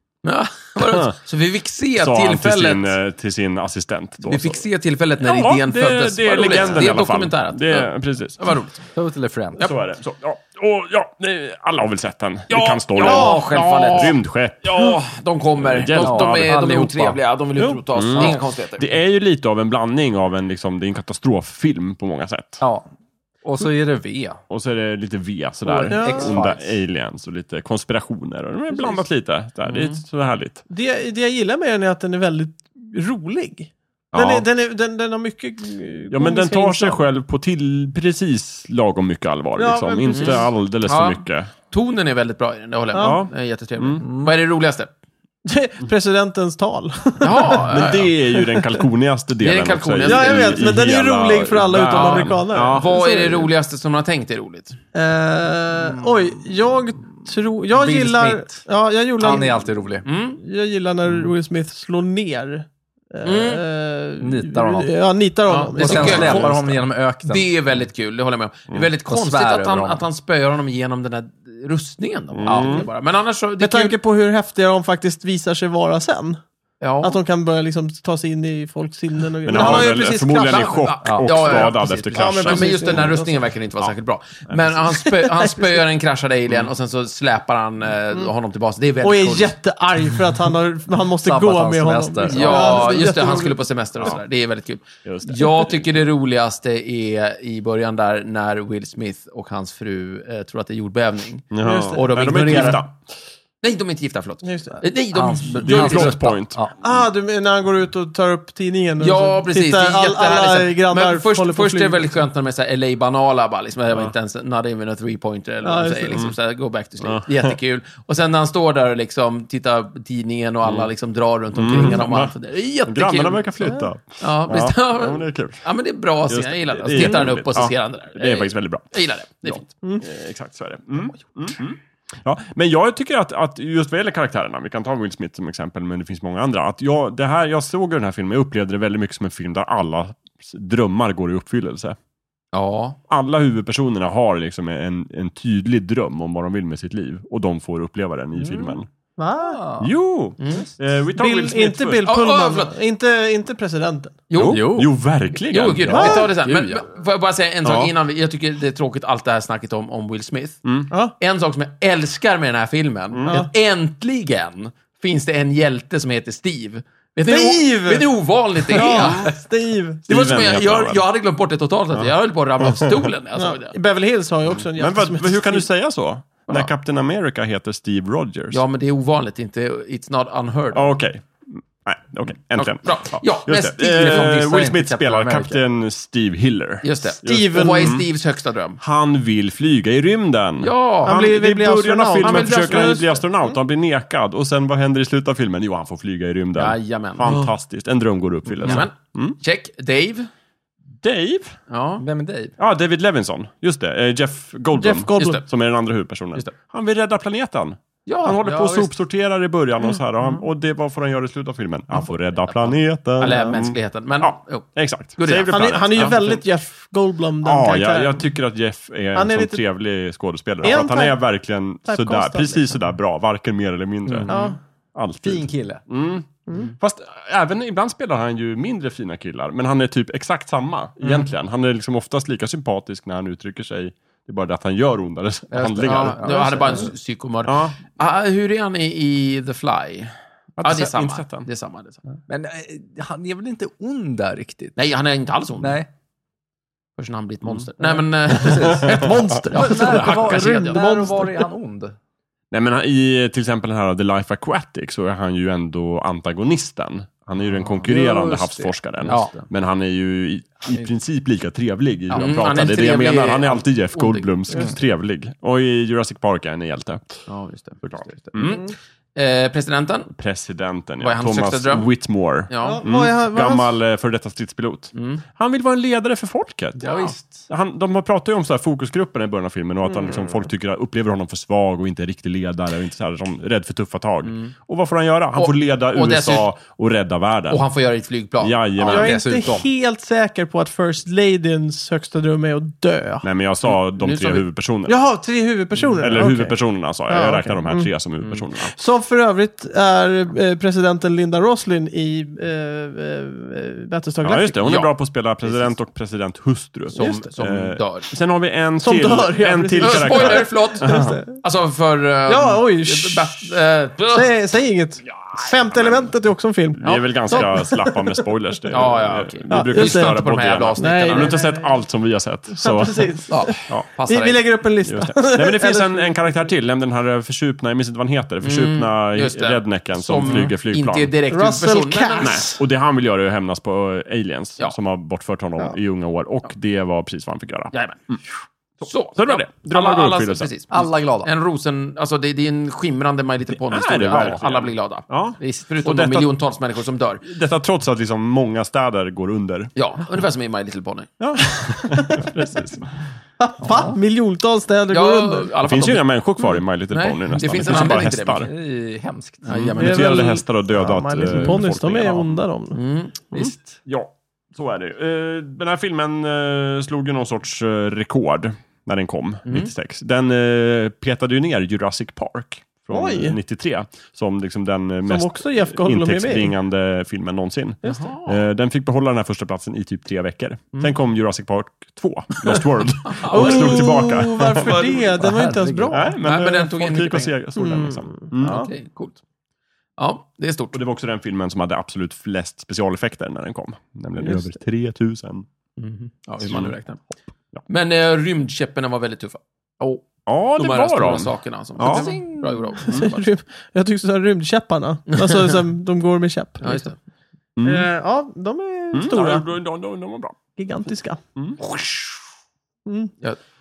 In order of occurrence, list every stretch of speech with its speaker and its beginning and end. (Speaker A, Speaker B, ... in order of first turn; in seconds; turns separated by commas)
Speaker A: 0.2-3.0, Speaker B: 0.8-1.2, Speaker B: 2.0-4.6, Speaker A: 4.3-8.8, Speaker B: 5.2-8.6, Speaker C: 8.9-9.7, Speaker B: 9.6-14.9, Speaker A: 12.5-18.9, Speaker D: 13.0-13.5, Speaker B: 15.6-16.5, Speaker C: 16.0-17.2, Speaker B: 17.6-22.6, Speaker C: 18.1-18.4, Speaker C: 22.6-22.9, Speaker C: 23.4-24.4, Speaker B: 24.5-30.6, Speaker C: 25.6-26.7, Speaker D: 25.9-26.4, Speaker A: 29.7-30.0, Speaker D: 30.7-37.0, Speaker B: 34.1-34.5, Speaker B: 36.1-41.5, Speaker D: 39.6-40.5, Speaker A: 40.1-44.9, Speaker B: 43.0-44.0, Speaker C: 44.0-44.3, Speaker D: 45.5-47.7, Speaker A: 47.2-48.1, Speaker B: 47.6-52.9, Speaker D: 48.4-48.8, Speaker A: 49.4-50.6, Speaker D: 50.0-53.5, Speaker A: 51.9-54.8, Speaker D: 54.9-59.6, Speaker C: 55.8-56.2, Speaker C: 57.7-58.7, Speaker C: 59.2-60.0, Speaker A: 60.0-60.4, Speaker D: 60.4-66.7, Speaker A: 63.2-63.6, Speaker C: 64.2-64.9, Speaker A: 65.5-66.7, Speaker C: 65.8-67.5, Speaker B: 66.0-66.6, Speaker A: 67.2-74.0, Speaker C: 69.0-70.0, Speaker B: 72.3-72.9, Speaker C: 72.5-72.9, Speaker D: 73.6-76.4, Speaker A: 76.8-77.2, Speaker D: 77.0-80.9, Speaker B: 79.4-83.2, Speaker A: 79.5-89.5, Speaker C: 81.0-82.6, Speaker D: 82.1-83.3, Speaker B: 84.5-84.8, Speaker D: 85.0-85.6, Speaker D: 89.0-93.6, Speaker C: 91.2-93.1, Speaker A: 92.3-102.9, Speaker B: 95.0-95.8, Speaker B: 101.5-102.9, Speaker D: 101.6-102.1, Speaker A: 103.6-106.4, Speaker D: 104.4-104.8, Speaker C: 105.1-106.7, Speaker B: 105.6-106.7, Speaker D: 106.8-112.0, Speaker A: 109.0-129.7, Speaker D: 115.6-116.3, Speaker B: 117.0-117.6, Speaker B: 120.6-120.9, Speaker B: 121.5-122.3, Speaker B: 122.9-125.6, Speaker B: 126.3-142.0, Speaker A: 142.5-143.0, Speaker B: 143.1-148.9, Speaker C: 148.4-148.8, Speaker D: 149.2-149.6, Speaker C: 149.4-149.9, Speaker B: 149.8-152.1, Speaker A: 150.4-150.7, Speaker D: 151.2-154.2, Speaker A: 152.1-152.7, Speaker A: 154.3-154.9, Speaker B: 154.3-156.3, Speaker C: 154.5-154.9, Speaker A: 155.5-160.6, Speaker C: 155.8-156.9, Speaker D: 155.9-156.3, Speaker B: 157.6-157.9, Speaker B: 160.7-160.9, Speaker A: 161.2-169.4, Speaker B: 163.1-163.4, Speaker D: 167.3-168.1, Speaker D: 168.7-170.0, Speaker B: 168.9-169.2, Speaker B: 170.1-171.0, Speaker A: 170.1-173.8, Speaker B: 171.9-173.0, Speaker D: 173.4-175.7, Speaker B: 174.6-178.6, Speaker A: 178.5-180.9, Speaker B: 180.7-188.1, Speaker A: 182.6-185.5, Speaker C: 184.4-185.6, Speaker A: 186.8-188.8, Speaker D: 187.2-188.0, Speaker B: 188.8-199.4, Speaker A: 190.6-191.3, Speaker D: 191.1-193.6, Speaker A: 192.2-193.2, Speaker A: 196.6-197.4, Speaker A: 198.6-200.3, Speaker B: 201.0-201.6, Speaker A: 201.7-202.0, Speaker C: 202.0-202.6, Speaker B: 202.6-216.4, Speaker D: 204.7-205.4, Speaker A: 205.2-205.4, Speaker A: 208.1-208.9, Speaker A: 213.2-216.1, Speaker D: 215.5-218.2, Speaker B: 217.4-224.3, Speaker D: 219.2-219.6, Speaker D: 220.6-221.2, Speaker D: 221.9-222.8, Speaker C: 224.1-224.5, Speaker D: 224.3-224.6, Speaker B: 225.0-236.5, Speaker C: 225.2-225.8, Speaker D: 226.5-226.7, Speaker C: 235.5-236.9, Speaker A: 235.8-242.0, Speaker B: 237.4-237.8, Speaker B: 240.6-241.5, Speaker C: 242.3-244.8, Speaker A: 244.8-245.8, Speaker C: 245.6-245.9, Speaker A: 247.0-251.1, Speaker C: 247.8-251.9, Speaker B: 248.6-249.4, Speaker D: 248.9-251.5, Speaker B: 252.5-267.3, Speaker C: 257.8-259.5, Speaker A: 259.1-259.4, Speaker C: 262.1-262.7, Speaker A: 262.1-264.3, Speaker A: 267.3-270.1, Speaker B: 267.8-268.6, Speaker D: 268.5-268.7, Speaker B: 270.1-287.6, Speaker A: 271.0-271.9, Speaker A: 272.5-272.8, Speaker D: 272.6-273.8, Speaker A: 274.9-275.2, Speaker C: 276.8-277.5, Speaker D: 279.9-280.3, Speaker A: 284.2-284.5, Speaker A: 285.4-286.5, Speaker A: 287.5-288.6, Speaker B: 288.4-289.2, Speaker C: 288.8-289.7, Speaker D: 288.8-293.3, Speaker B: 293.2-295.0, Speaker A: 293.7-294.4, Speaker D: 294.9-296.6, Speaker B: 296.0-298.8, Speaker D: 297.1-297.9, Speaker D: 298.7-304.6, Speaker B: 304.2-311.2, Speaker A: 304.6-305.7, Speaker A: 306.9-308.1, Speaker D: 306.9-307.3, Speaker D: 308.8-311.4, Speaker A: 309.8-314.3, Speaker D: 312.3-313.5, Speaker D: 314.1-318.2, Speaker B: 316.8-323.1, Speaker A: 316.8-317.6, Speaker A: 318.7-321.4, Speaker D: 319.5-321.8, Speaker D: 322.5-326.1, Speaker A: 323.3-324.4, Speaker B: 324.8-331.1, Speaker A: 328.4-332.5, Speaker D: 331.3-332.6, Speaker B: 332.2-338.2, Speaker A: 337.7-338.0, Speaker B: 338.8-340.5, Speaker A: 338.8-347.2, Speaker C: 340.7-341.3, Speaker B: 343.7-346.3, Speaker C: 344.1-344.4, Speaker B: 347.2-349.7, Speaker A: 349.8-351.1, Speaker B: 351.2-353.0, Speaker D: 351.7-352.3, Speaker D: 353.4-355.5, Speaker C: 353.6-354.0, Speaker A: 354.9-358.5, Speaker B: 355.6-358.5, Speaker C: 357.7-359.8, Speaker A: 359.4-360.3, Speaker B: 359.5-362.4, Speaker D: 359.8-362.8, Speaker A: 362.7-363.3, Speaker C: 363.3-363.8, Speaker B: 363.4-385.0, Speaker A: 369.5-369.7, Speaker D: 372.9-373.4, Speaker D: 375.1-376.5, Speaker A: 377.8-378.4, Speaker A: 382.4-384.0, Speaker D: 383.3-386.2, Speaker C: 384.7-386.0, Speaker B: 385.9-388.6, Speaker A: 386.2-387.4, Speaker D: 387.6-388.7, Speaker A: 388.4-389.2, Speaker A: 390.0-390.8, Speaker B: 390.7-395.5, Speaker A: 395.8-397.1, Speaker B: 396.4-396.8, Speaker A: 397.7-400.1, Speaker B: 400.3-402.2, Speaker A: 400.6-403.2, Speaker C: 401.8-402.8, Speaker D: 402.9-406.9, Speaker A: 405.1-405.6, Speaker A: 406.6-407.0, Speaker B: 407.6-407.9, Speaker D: 407.6-409.5, Speaker B: 408.9-410.4, Speaker D: 410.6-411.2, Speaker A: 411.6-412.2, Speaker D: 412.9-413.1